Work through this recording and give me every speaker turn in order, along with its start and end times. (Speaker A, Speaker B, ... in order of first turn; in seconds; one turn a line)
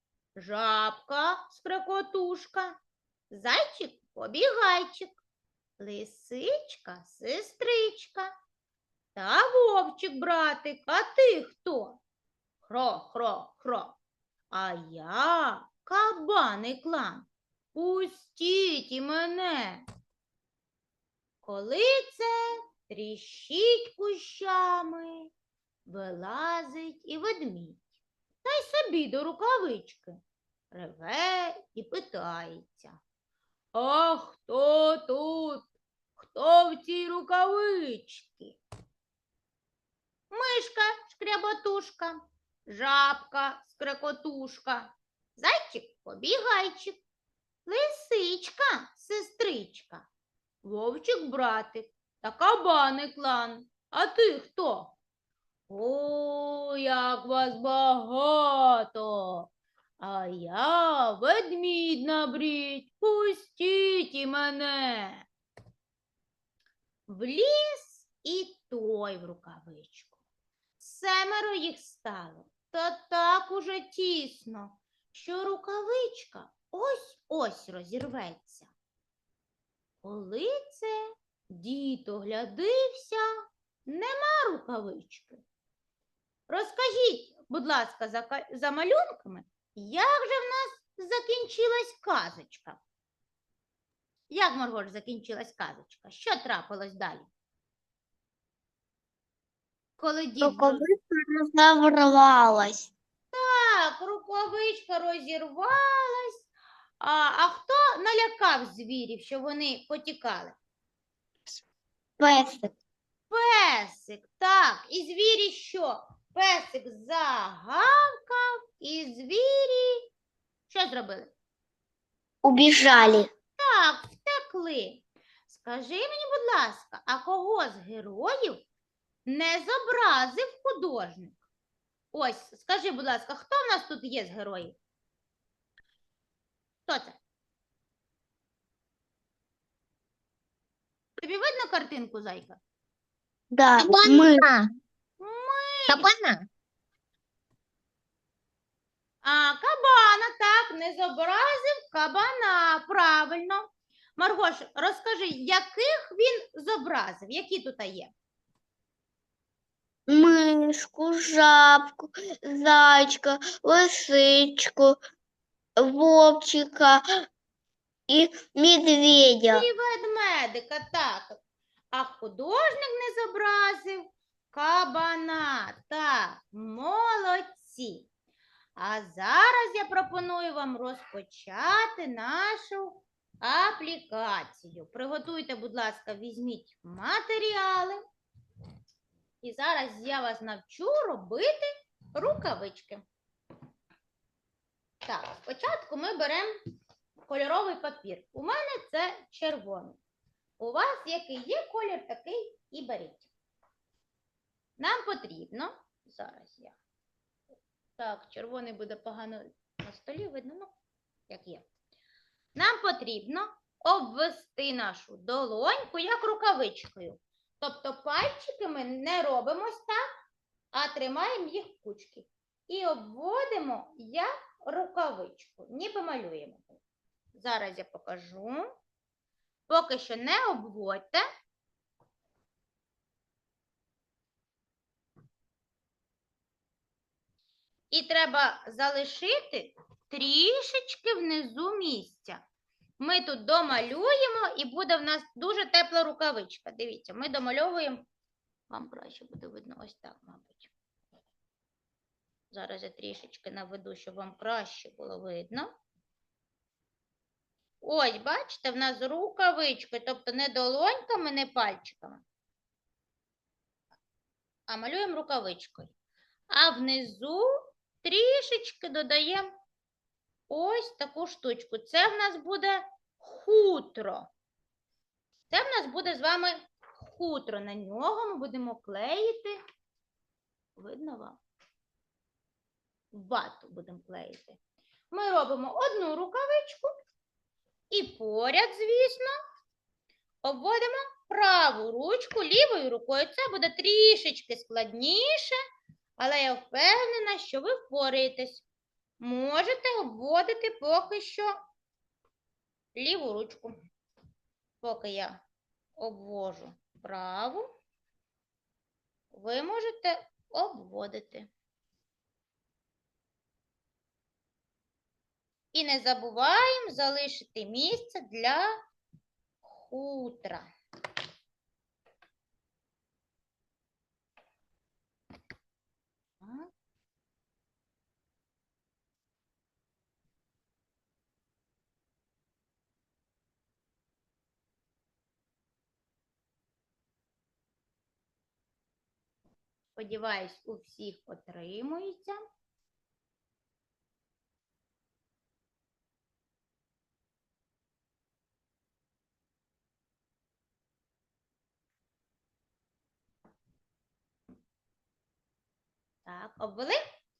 Speaker A: 0.4-2.8
Speaker A: 3.3-5.2
Speaker A: 5.8-8.3
Speaker A: 9.2-12.0
Speaker A: 12.6-14.0
Speaker A: 14.5-19.8
Speaker A: 21.4-25.3
Speaker A: 25.9-27.9
Speaker A: 28.4-30.2
Speaker A: 30.7-33.0
Speaker A: 33.8-38.6
Speaker A: 40.3-47.0
Speaker A: 47.7-50.1
Speaker A: 50.6-55.0
Speaker A: 55.7-65.2
Speaker A: 67.1-70.2
Speaker A: 70.8-78.7
Speaker A: 80.0-83.3
Speaker A: 83.9-85.4
Speaker A: 86.5-92.8
Speaker A: 94.3-97.3
Speaker A: 100.0-100.8
Speaker B: 100.4-102.9
Speaker A: 103.3-106.5
Speaker A: 107.0-110.6
Speaker B: 112.2-112.7
Speaker A: 113.3-120.0
Speaker A: 120.7-121.3
Speaker B: 122.4-123.3
Speaker A: 123.6-128.7
Speaker A: 129.3-131.4
Speaker A: 132.1-134.8
Speaker A: 136.9-137.2
Speaker A: 141.2-142.6
Speaker B: 143.5-144.6
Speaker A: 144.0-144.4
Speaker A: 145.2-146.1
Speaker B: 145.9-146.4
Speaker A: 149.2-158.1
Speaker B: 160.1-165.0
Speaker B: 165.8-167.2
Speaker B: 168.1-169.7
Speaker A: 169.4-171.4
Speaker A: 171.9-178.1
Speaker A: 178.8-188.0
Speaker A: 189.4-193.1
Speaker A: 195.1-196.5
Speaker A: 197.3-200.0
Speaker A: 200.6-203.3
Speaker A: 204.8-206.8
Speaker A: 208.0-210.7
Speaker A: 211.3-211.7
Speaker A: 212.6-220.0
Speaker A: 220.7-226.8
Speaker A: 227.3-228.7
Speaker A: 229.7-231.2
Speaker A: 237.9-242.4
Speaker A: 243.0-248.1
Speaker A: 248.7-250.7
Speaker A: 252.5-255.7
Speaker A: 257.8-262.2
Speaker A: 264.7-265.9
Speaker A: 266.5-267.5
Speaker A: 268.0-269.5
Speaker A: 270.5-274.3
Speaker A: 275.5-279.6
Speaker A: 280.8-281.4
Speaker A: 283.1-284.6
Speaker A: 285.1-286.9
Speaker A: 287.9-289.3
Speaker A: 290.4-295.6
Speaker A: 296.2-298.6
Speaker A: 299.2-301.5
Speaker A: 303.0-303.8
Speaker A: 304.8-305.4
Speaker A: 306.0-307.7
Speaker A: 309.3-311.5
Speaker A: 315.7-318.7
Speaker A: 319.6-320.7
Speaker A: 326.4-326.7
Speaker A: 339.9-342.4
Speaker A: 356.2-357.0